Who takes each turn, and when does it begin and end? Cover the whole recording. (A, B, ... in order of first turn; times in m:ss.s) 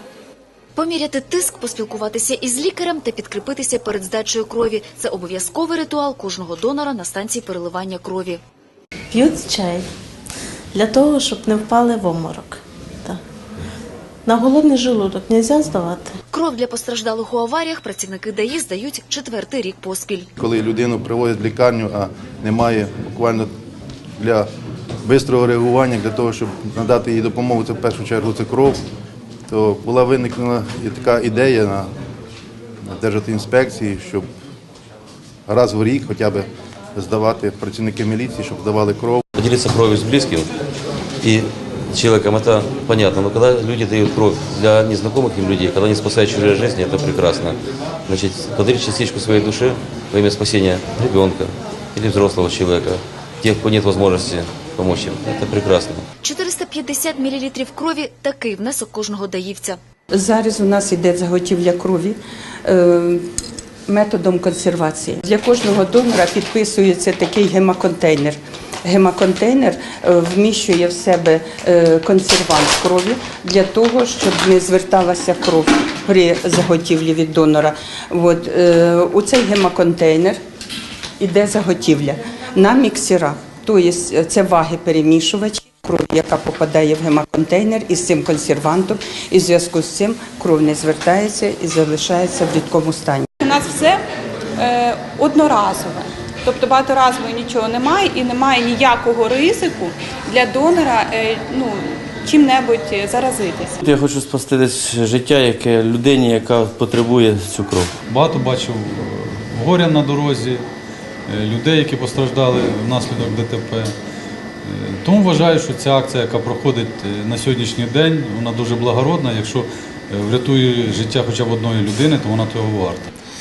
0:00.8-0:08.4 A
0:09.1-0:09.8 B
0:10.7-0:13.2 B
0:14.2-0:16.1 B
0:16.3-0:20.3 A
0:20.4-0:23.5 C
0:24.2-0:24.5 C
0:25.0-0:28.8 C
0:29.5-0:31.9 C
0:32.8-0:34.3 C
0:35.5-0:39.2 C
0:39.4-0:40.5 D
0:41.2-0:56.0 D
0:56.2-0:59.8 A
1:00.1-1:03.3 E
1:03.9-1:20.4 E
1:21.2-1:33.3 E
1:33.4-1:34.0 F
1:34.6-1:43.8 F
1:43.8-1:47.9 G
1:48.1-1:50.6 H
1:51.3-1:53.9 H
1:54.6-2:03.1 H